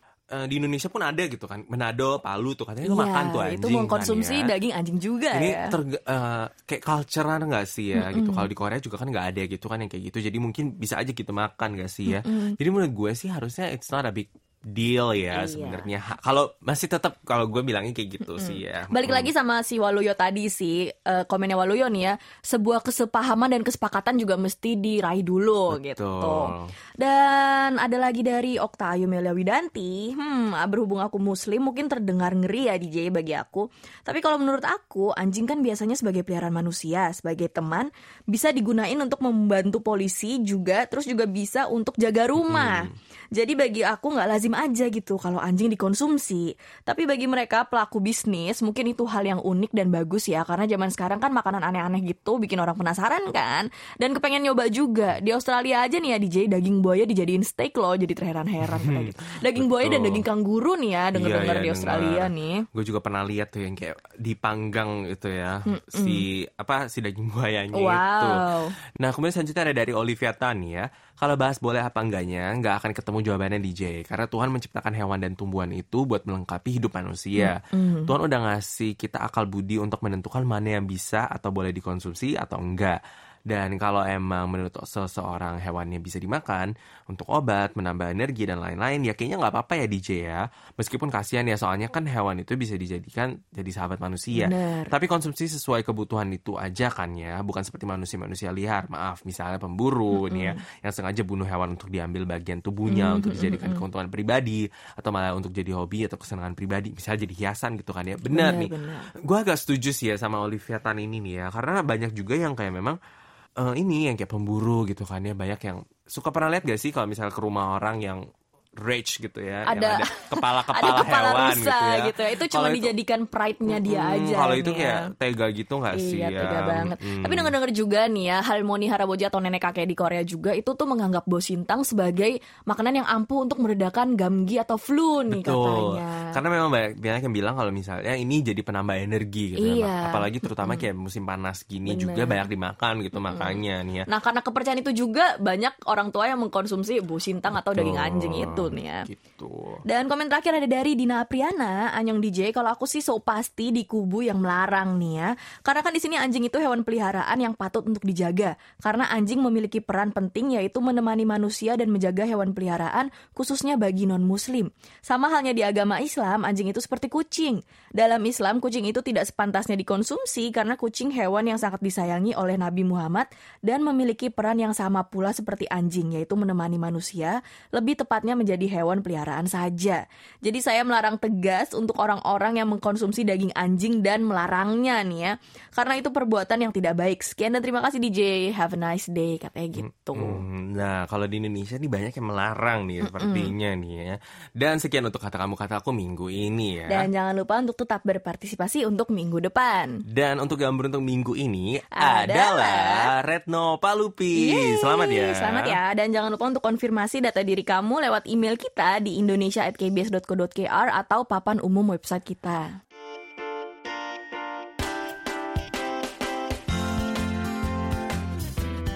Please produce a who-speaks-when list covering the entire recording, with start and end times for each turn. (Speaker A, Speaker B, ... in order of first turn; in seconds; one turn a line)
Speaker A: 0.3-4.5
Speaker B: 2.8-5.7
Speaker A: 5.3-19.3
Speaker B: 7.9-8.5
Speaker B: 12.1-12.6
Speaker B: 15.3-15.9
Speaker B: 18.4-62.6
Speaker A: 25.7-26.7
Speaker A: 42.4-42.9
Speaker A: 58.6-60.2
Speaker A: 61.1-68.5
Speaker B: 65.7-66.2
Speaker B: 67.7-68.7
Speaker A: 69.0-83.0
Speaker B: 77.3-78.1
Speaker A: 83.5-113.0
Speaker B: 94.3-94.9
Speaker B: 100.1-100.6
Speaker B: 102.9-103.8
Speaker B: 108.3-109.1
Speaker A: 113.6-118.2
Speaker A: 118.8-122.9
Speaker B: 119.7-125.1
Speaker A: 123.7-127.5
Speaker B: 125.9-136.3
Speaker A: 135.3-144.1
Speaker B: 139.6-140.8
Speaker B: 141.9-142.5
Speaker B: 143.3-149.1
Speaker A: 147.7-149.8
Speaker B: 149.9-190.4
Speaker A: 189.8-197.1
Speaker B: 193.0-193.5
Speaker B: 196.9-200.0
Speaker A: 200.1-205.8
Speaker B: 201.9-203.1
Speaker B: 204.3-212.7